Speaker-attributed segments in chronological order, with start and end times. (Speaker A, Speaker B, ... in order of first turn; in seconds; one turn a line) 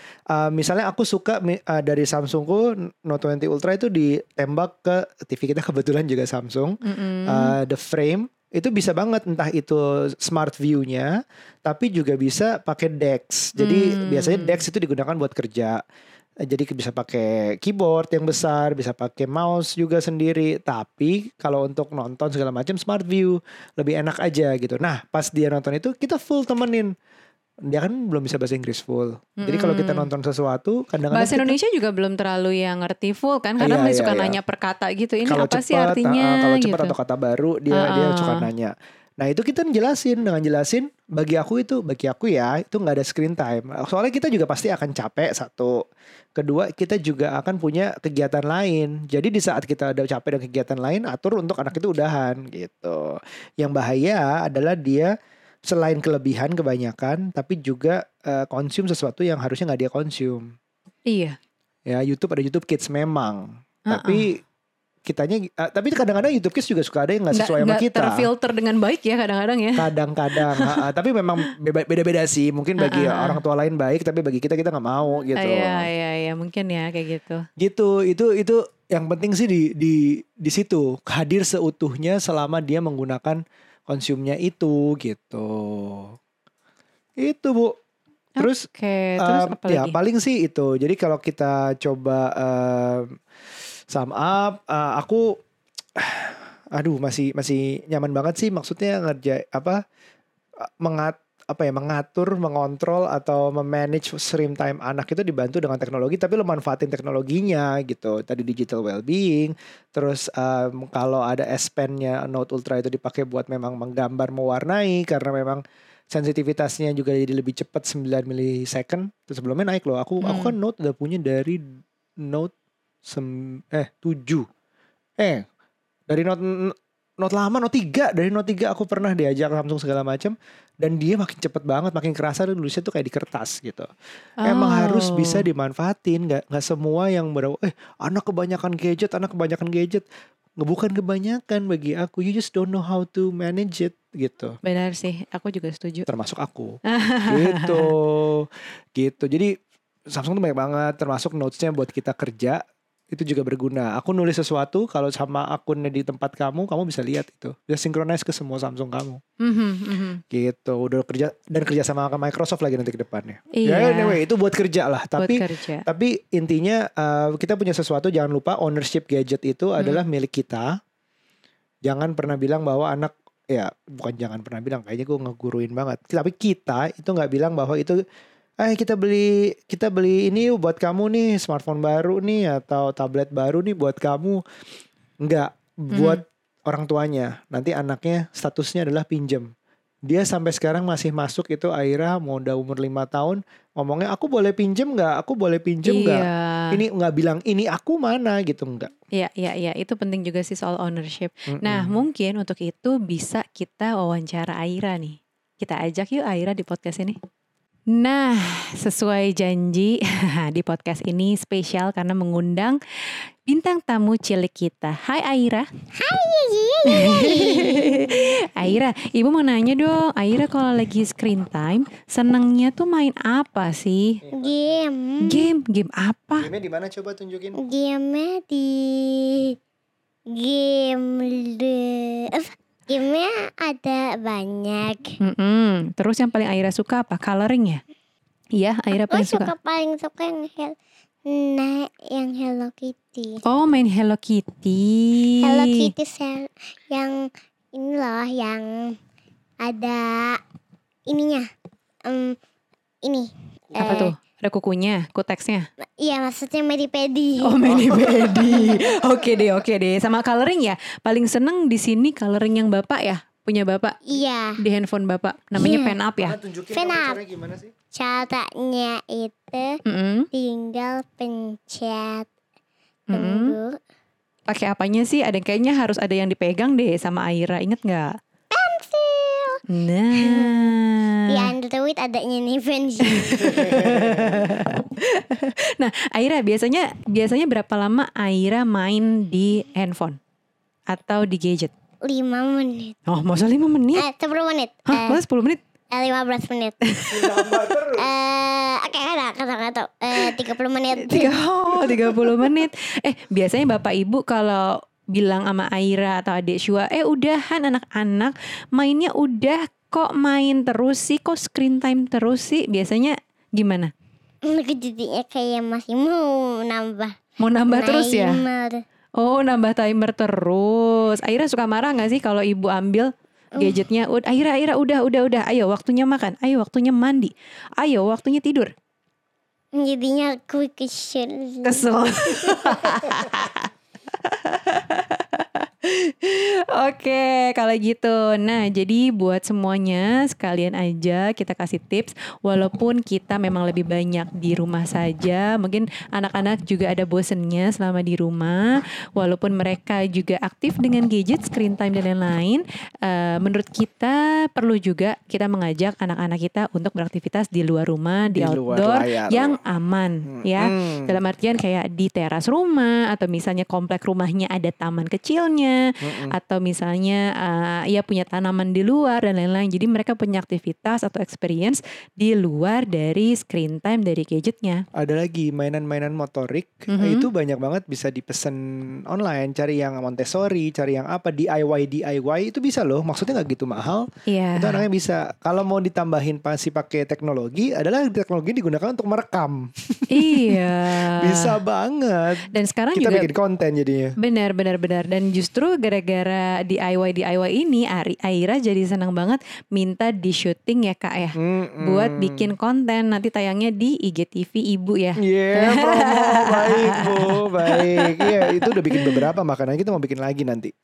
Speaker A: 0.3-11.1
Speaker B: 6.8-7.5
Speaker A: 11.6-15.8
Speaker B: 13.6-14.6
Speaker A: 16.4-26.9
Speaker A: 27.7-31.6
Speaker B: 29.4-30.1
Speaker B: 31.1-36.9
Speaker A: 33.6-34.4
Speaker A: 35.3-45.8
Speaker B: 37.7-38.5
Speaker A: 46.4-55.1
Speaker A: 55.6-60.5
Speaker B: 61.1-61.4
Speaker A: 61.9-64.4
Speaker B: 63.9-64.2
Speaker A: 65.0-68.3
Speaker B: 67.3-70.8
Speaker A: 69.8-75.9
Speaker B: 72.8-73.4
Speaker B: 75.3-77.4
Speaker A: 77.6-86.2
Speaker A: 87.2-87.8
Speaker A: 88.4-88.7
Speaker B: 88.4-90.0
Speaker A: 89.2-93.2
Speaker A: 93.9-95.4
Speaker A: 96.0-99.8
Speaker A: 100.8-122.5
Speaker B: 120.2-120.5
Speaker A: 123.0-124.5
Speaker A: 125.2-125.4
Speaker A: 126.1-133.9
Speaker B: 134.4-135.4
Speaker A: 134.4-140.1
Speaker A: 140.6-144.6
Speaker B: 144.6-146.1
Speaker A: 146.1-149.5
Speaker B: 146.9-147.9
Speaker A: 150.1-159.2
Speaker B: 159.4-160.2
Speaker A: 160.3-170.7
Speaker B: 163.5-164.2
Speaker B: 165.2-165.8
Speaker A: 171.8-178.0
Speaker A: 178.6-184.4
Speaker A: 185.2-189.5
Speaker B: 185.9-186.2
Speaker A: 190.1-198.9
Speaker B: 195.8-196.8
Speaker B: 199.2-207.2
Speaker A: 201.5-202.0
Speaker B: 207.9-215.7
Speaker C: 216.0-218.8
Speaker B: 216.8-224.2
Speaker A: 224.2-224.8
Speaker C: 224.3-225.5
Speaker B: 225.2-226.5
Speaker A: 226.4-227.6
Speaker C: 227.6-229.6
Speaker C: 230.3-235.2
Speaker B: 235.2-237.8
Speaker B: 238.6-239.5
Speaker C: 238.9-240.7
Speaker C: 241.2-243.4
Speaker B: 243.4-245.9
Speaker C: 245.4-249.0
Speaker C: 249.6-250.4
Speaker C: 251.1-251.5
Speaker C: 252.1-252.4
Speaker C: 253.0-254.1
Speaker B: 253.8-255.7
Speaker C: 256.0-258.4
Speaker B: 257.4-264.0
Speaker A: 257.7-258.8
Speaker C: 264.1-264.6
Speaker B: 264.6-266.4
Speaker C: 265.6-265.9
Speaker A: 266.2-267.7
Speaker C: 266.7-267.2
Speaker C: 267.9-269.8
Speaker B: 269.9-270.3
Speaker C: 270.3-272.3
Speaker B: 273.1-273.6
Speaker C: 273.1-273.8
Speaker B: 274.5-278.1
Speaker C: 278.5-279.6
Speaker B: 279.7-281.5
Speaker C: 280.1-280.7
Speaker C: 281.3-283.5
Speaker B: 283.0-290.2
Speaker A: 283.4-284.5
Speaker B: 290.9-291.7
Speaker C: 292.0-292.9
Speaker B: 293.1-294.0
Speaker C: 293.9-295.2
Speaker B: 294.9-295.6
Speaker C: 295.9-296.8
Speaker B: 296.9-297.4
Speaker A: 297.1-298.1
Speaker C: 298.0-302.3
Speaker B: 301.0-313.9
Speaker C: 314.4-317.2
Speaker B: 317.4-318.4
Speaker C: 317.7-318.8
Speaker B: 319.2-328.7
Speaker C: 329.8-331.9
Speaker B: 331.6-374.8
Speaker C: 332.5-333.0
Speaker A: 358.3-359.6
Speaker A: 360.2-361.1
Speaker A: 366.0-366.4
Speaker A: 374.9-394.1
Speaker B: 376.9-377.3
Speaker B: 384.3-384.8
Speaker B: 390.1-391.5
Speaker B: 392.5-393.3
Speaker B: 394.2-409.2
Speaker A: 401.4-402.5
Speaker A: 405.2-410.7